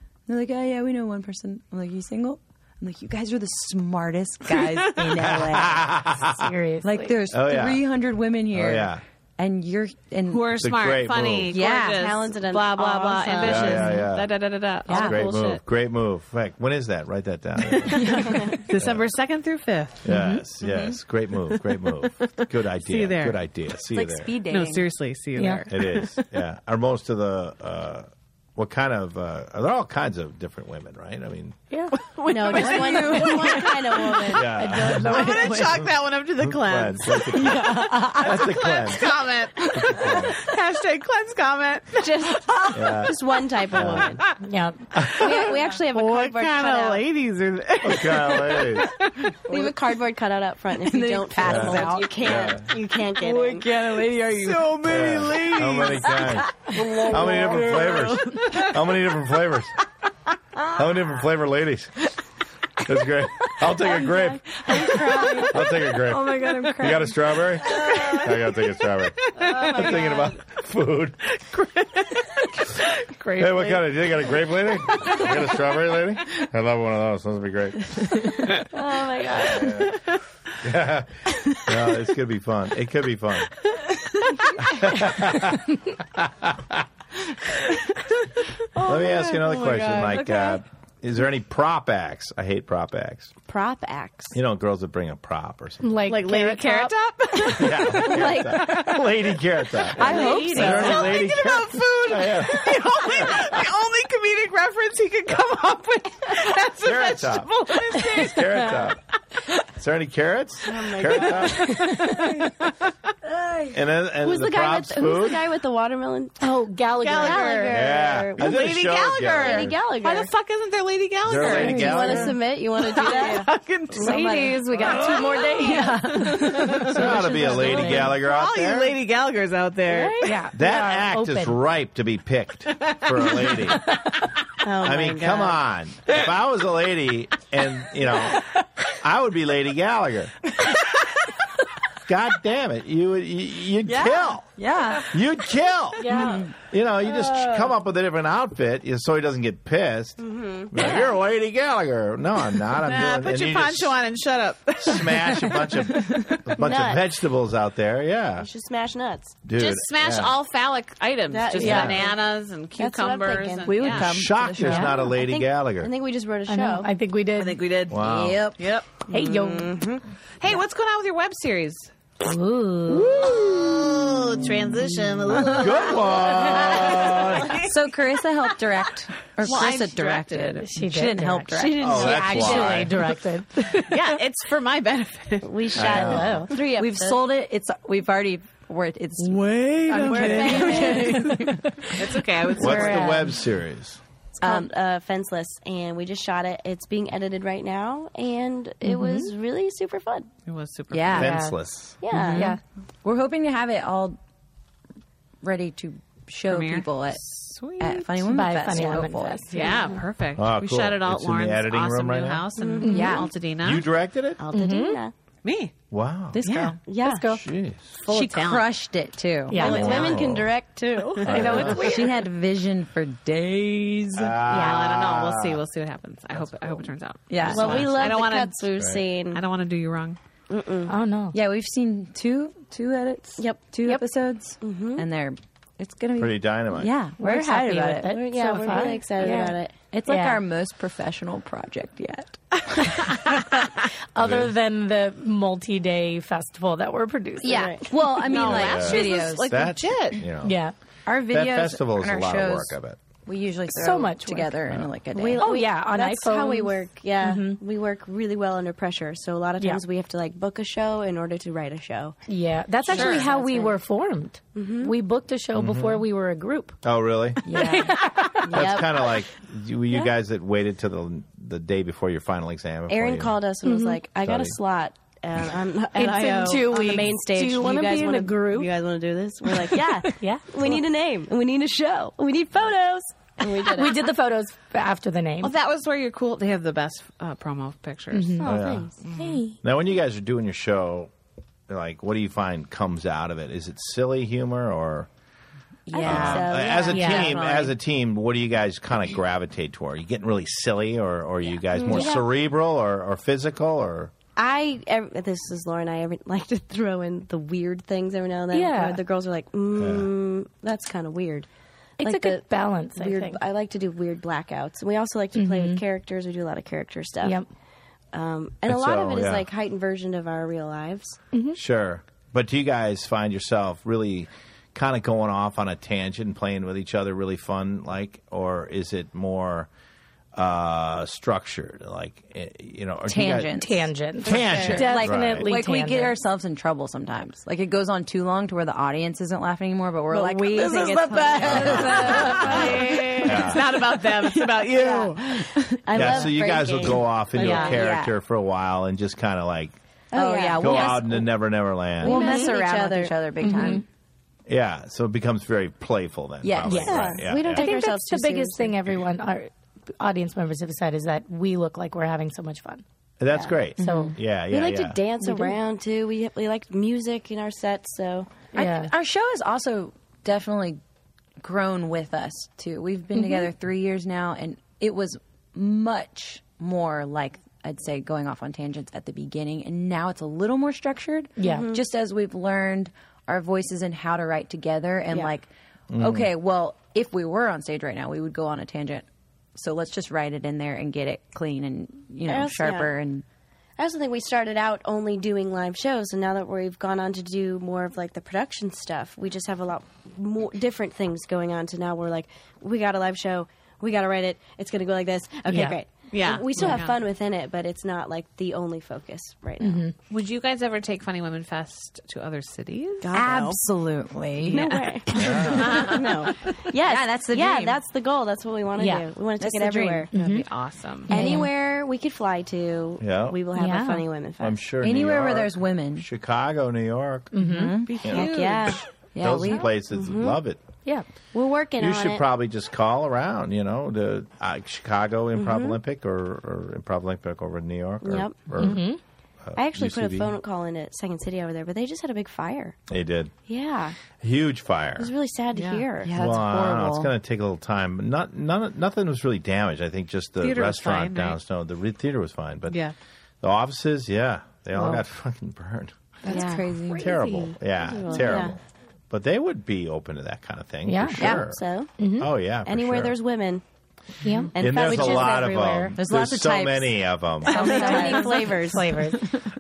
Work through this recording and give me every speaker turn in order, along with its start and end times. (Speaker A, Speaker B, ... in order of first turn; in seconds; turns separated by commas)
Speaker A: 0.3-6.0, Speaker B: 4.6-5.1, Speaker C: 5.3-6.5, Speaker D: 6.2-7.2, Speaker A: 6.8-10.6, Speaker C: 7.3-7.8, Speaker C: 8.5-9.0, Speaker B: 10.3-15.6, Speaker C: 10.6-11.6, Speaker A: 11.5-12.1, Speaker E: 11.6-14.0, Speaker C: 13.4-14.3, Speaker A: 14.9-15.2, Speaker C: 15.0-19.1, Speaker B: 17.6-20.1, Speaker A: 18.0-18.6, Speaker D: 18.3-18.5, Speaker C: 20.0-24.4, Speaker D: 20.1-20.4, Speaker B: 21.5-23.4, Speaker A: 23.9-24.9, Speaker B: 24.5-26.2, Speaker D: 25.4-25.6, Speaker C: 25.7-31.6, Speaker B: 31.9-42.4, Speaker E: 32.3-35.5, Speaker A: 32.5-33.9, Speaker C: 34.3-39.1, Speaker D: 34.4-35.8, Speaker A: 37.3-38.5, Speaker C: 39.7-40.4, Speaker E: 42.0-44.3, Speaker A: 42.7-43.0, Speaker C: 42.7-43.1, Speaker C: 43.7-44.2, Speaker B: 44.0-44.4, Speaker D: 44.3-44.9, Speaker B: 45.0-49.3, Speaker E: 45.2-47.0, Speaker C: 47.8-48.9, Speaker E: 49.5-53.7, Speaker A: 50.8-55.2, Speaker C: 51.4-52.7, Speaker B: 54.3-58.7, Speaker C: 54.8-59.8, Speaker A: 56.4-58.4, Speaker C: 60.7-62.1, Speaker C: 62.8-64.6, Speaker E: 63.7-65.7, Speaker B: 64.7-65.4, Speaker A: 64.9-65.3, Speaker C: 65.5-71.2, Speaker A: 66.2-67.0, Speaker A: 67.7-68.3, Speaker B: 67.8-68.7, Speaker B: 69.2-70.3, Speaker E: 69.5-70.3, Speaker B: 71.3-74.2, Speaker C: 73.4-78.3, Speaker B: 75.0-75.4, Speaker E: 78.6-79.9, Speaker C: 79.4-80.0, Speaker B: 79.5-80.0, Speaker C: 80.6-83.5, Speaker C: 84.6-86.8, Speaker B: 88.7-90.6, Speaker C: 88.8-93.3, Speaker E: 93.5-94.4, Speaker C: 94.3-96.0, Speaker D: 95.8-96.9, Speaker B: 96.1-98.6, Speaker E: 97.4-99.0, Speaker C: 97.5-103.7, Speaker A: 100.0-101.1, Speaker D: 100.0-101.1, Speaker E: 100.0-101.2, Speaker B: 100.2-108.8, Speaker C: 106.8-107.5, Speaker C: 108.1-109.0, Speaker C: 109.7-111.9, Speaker E: 110.7-112.3, Speaker B: 110.9-112.5, Speaker D: 111.7-112.4, Speaker A: 113.3-113.7, Speaker C: 113.7-115.5, Speaker E: 114.2-116.4, Speaker D: 116.4-117.8, Speaker B: 117.0-117.7, Speaker E: 117.1-118.8, Speaker C: 117.7-119.7, Speaker B: 118.4-122.2, Speaker E: 119.3-120.3, Speaker C: 121.2-122.3, Speaker E: 121.4-123.5, Speaker D: 121.6-122.2, Speaker A: 121.9-122.2, Speaker B: 122.8-130.4, Speaker A: 123.0-123.4, Speaker D: 123.9-128.2, Speaker A: 124.0-126.8, Speaker E: 124.0-125.9, Speaker C: 126.9-129.0, Speaker E: 129.9-130.3, Speaker D: 130.2-131.6, Speaker C: 130.5-133.9, Speaker B: 132.8-134.1, Speaker E: 134.6-135.6, Speaker C: 134.8-140.5, Speaker C: 142.1-144.5, Speaker A: 143.8-145.2, Speaker C: 145.0-154.0, Speaker D: 146.0-146.5, Speaker A: 146.1-146.5, Speaker E: 150.2-151.2, Speaker B: 150.8-151.1, Speaker B: 152.7-156.3, Speaker C: 154.8-158.5, Speaker E: 156.6-157.0, Speaker E: 158.4-159.4, Speaker C: 159.4-160.3, Speaker B: 159.6-164.2, Speaker E: 161.3-162.2, Speaker D: 161.6-162.0, Speaker C: 161.6-162.0, Speaker E: 162.8-166.9, Speaker D: 163.7-165.1, Speaker C: 163.9-165.9, Speaker A: 164.1-165.1, Speaker D: 166.5-167.6, Speaker B: 167.4-168.0, Speaker C: 167.9-168.5, Speaker A: 167.9-168.7, Speaker B: 168.6-169.0, Speaker D: 169.1-169.9, Speaker E: 169.1-170.0, Speaker B: 170.4-171.9, Speaker D: 172.2-173.3, Speaker B: 172.9-177.7, Speaker C: 175.3-177.6, Speaker E: 176.1-177.4, Speaker A: 177.6-182.1, Speaker B: 179.4-180.6, Speaker D: 180.6-184.0, Speaker E: 181.5-182.8, Speaker C: 181.8-183.0, Speaker B: 183.8-185.9, Speaker E: 185.4-187.2, Speaker C: 185.8-186.5, Speaker D: 185.8-186.5, Speaker A: 186.6-191.9, Speaker B: 189.2-191.4, Speaker D: 189.9-192.0, Speaker E: 190.1-191.2, Speaker B: 191.9-193.3, Speaker D: 192.6-193.3, Speaker C: 192.6-194.0, Speaker A: 194.4-194.7, Speaker E: 194.4-200.3, Speaker D: 198.9-199.3, Speaker B: 200.5-201.3, Speaker A: 200.9-201.4, Speaker D: 201.2-201.6, Speaker C: 201.2-202.0, Speaker E: 202.0-202.6, Speaker A: 202.1-204.2, Speaker D: 202.3-202.6, Speaker A: 205.4-207.2, Speaker B: 206.5-208.2, Speaker A: 207.8-209.4, Speaker D: 208.2-209.9, Speaker B: 209.5-213.9, Speaker C: 210.4-212.4, Speaker E: 212.6-213.2, Speaker D: 212.8-213.3, Speaker A: 212.9-213.3, Speaker C: 213.6-214.4, Speaker E: 214.4-215.1, Speaker D: 214.5-215.0, Speaker B: 215.4-215.7, Speaker C: 215.9-216.4, Speaker A: 216.3-216.8, Speaker B: 216.4-216.8, Speaker E: 216.9-217.4, Speaker D: 217.0-217.4, Speaker C: 217.3-217.9, Speaker B: 218.0-218.7, Speaker A: 218.1-220.1, Speaker D: 219.5-220.2, Speaker E: 219.5-222.1, Speaker C: 219.6-220.5, Speaker C: 221.2-221.9, Speaker D: 221.2-222.1, Speaker B: 221.3-221.7, Speaker A: 221.4-224.4, Speaker C: 224.2-225.6, Speaker B: 224.4-228.6, Speaker C: 226.3-226.9, Speaker A: 227.3-227.9, Speaker E: 227.4-229.4, Speaker C: 227.6-228.2, Speaker C: 228.8-229.0, Speaker B: 229.3-230.2, Speaker E: 230.5-231.0, Speaker D: 230.9-231.4, Speaker A: 231.3-243.0, Speaker E: 233.4-233.6, Speaker E: 234.6-235.1, Speaker C: 236.2-236.9, Speaker D: 237.2-240.4, Speaker E: 238.1-239.7, Speaker D: 243.0-243.6, Speaker D: 244.2-247.8, Speaker C: 244.2-244.5, Speaker A: 247.4-249.5, Speaker E: 247.5-247.9, Speaker B: 248.2-250.2, Speaker C: 248.4-250.6, Speaker D: 250.4-250.7, Speaker A: 251.1-255.6, Speaker C: 251.3-253.0, Speaker D: 253.7-254.6, Speaker E: 255.1-262.2, Speaker D: 255.4-257.6, Speaker D: 262.3-266.8, Speaker E: 262.8-263.8, Speaker B: 262.9-263.3, Speaker E: 264.6-264.9, Speaker C: 265.6-266.0, Speaker C: 266.8-267.5, Speaker A: 267.4-268.1, Speaker D: 267.5-269.1, Speaker E: 268.4-269.1, Speaker C: 268.5-273.4, Speaker E: 272.9-284.1, Speaker D: 273.6-274.0, Speaker C: 274.2-274.6, Speaker D: 275.9-278.7, Speaker D: 279.5-280.8, Speaker D: 283.6-285.5, Speaker B: 285.4-288.5, Speaker D: 288.1-289.6, Speaker E: 288.4-289.0, Speaker C: 288.4-288.9, Speaker B: 289.0-289.4, Speaker C: 289.6-291.1, Speaker C: 291.7-295.1, Speaker A: 295.9-297.4, Speaker E: 295.9-297.7, Speaker C: 296.0-304.1, Speaker D: 296.9-297.5, Speaker E: 301.7-302.2, Speaker D: 301.8-302.2, Speaker E: 304.4-311.5, Speaker D: 308.5-309.0, Speaker C: 309.8-310.1, Speaker E: 312.0-317.4, Speaker D: 312.0-313.4, Speaker D: 315.4-315.8, Speaker E: 318.1-321.2, Speaker C: 318.7-319.5, Speaker D: 321.3-321.6, Speaker C: 321.6-329.7, Speaker C: 330.3-333.7, Speaker A: 333.1-333.9, Speaker D: 333.5-336.1, Speaker C: 334.2-335.5, Speaker B: 334.3-334.8, Speaker A: 334.5-346.4, Speaker E: 340.1-342.8, Speaker B: 340.3-345.6, Speaker C: 341.4-343.7, Speaker E: 345.9-347.8, Speaker C: 345.9-349.8, Speaker D: 347.4-347.8, Speaker A: 347.4-348.1, Speaker E: 350.1-351.1, Speaker A: 350.1-351.3, Speaker C: 350.6-352.4, Speaker A: 352.0-353.8, Speaker E: 352.0-353.2, Speaker D: 352.2-352.5, Speaker D: 353.4-353.8, Speaker C: 354.5-357.7, Speaker A: 356.4-357.1, Speaker D: 356.7-362.8, Speaker E: 356.8-358.7, Speaker C: 363.2-365.0, Speaker E: 363.3-363.6, Speaker D: 363.8-364.2, Speaker A: 363.8-364.1, Speaker E: 364.5-368.4, Speaker D: 365.2-365.6, Speaker D: 368.5-368.9, Speaker A: 368.5-370.8, Speaker A: 371.4-393.2, Speaker D: 381.4-381.7, Speaker E: 381.4-381.8, Speaker C: 385.9-386.3, Speaker E: 392.3-392.9, Speaker E: 393.8-409.9, Speaker D: 405.5-405.8, Speaker B: 406.1-407.0, Speaker D: 409.6-409.9, Speaker B: 410.1-413.2, Speaker E: 413.0-413.6, Speaker A: 413.1-414.6, Speaker B: 414.5-416.3, Speaker E: 414.5-420.1, Speaker C: 415.1-415.9, Speaker A: 416.8-417.8, Speaker D: 418.8-419.1, Speaker A: 419.4-420.1, Speaker D: 420.1-420.5, Speaker B: 420.1-421.1, Speaker D: 421.1-421.5, Speaker E: 421.1-424.6, Speaker A: 421.1-421.5, Speaker C: 423.0-423.5, Speaker D: 423.6-424.1, Speaker C: 424.4-427.3, Speaker A: 424.8-426.1, Speaker D: 427.3-427.9, Speaker A: 427.4-427.9, Speaker B: 427.9-428.8, Speaker E: 428.0-428.9, Speaker A: 429.1-429.6, Speaker C: 429.2-430.6, Speaker E: 429.8-430.4, Speaker E: 431.3-432.2, Speaker C: 431.8-438.8, Speaker E: 435.4-435.8, Speaker E: 438.0-438.7, Speaker D: 438.6-439.0, Speaker C: 439.4-440.3, Speaker E: 439.6-442.8, Speaker C: 442.9-443.3, Speaker E: 443.5-444.0, Speaker C: 444.2-445.1, Speaker E: 445.0-446.1, Speaker B: 445.6-445.9, Speaker A: 446.0-447.1, Speaker C: 446.1-452.8, Speaker B: 450.4-451.4, Speaker B: 452.7-452.9, Speaker C: 453.4-455.9, Speaker A: 456.2-457.2, Speaker E: 456.3-456.7, Speaker D: 456.3-458.4, Speaker C: 457.0-461.6, Speaker E: 457.9-458.6, Speaker D: 460.9-461.4, Speaker A: 461.2-461.4, Speaker E: 461.3-462.0, Speaker D: 462.0-462.3, Speaker C: 462.2-463.1, Speaker E: 462.6-463.6, Speaker D: 464.2-466.0, Speaker E: 464.5-465.4, Speaker C: 464.6-467.7, Speaker A: 466.0-469.2, Speaker E: 467.5-469.0, Speaker D: 467.5-469.4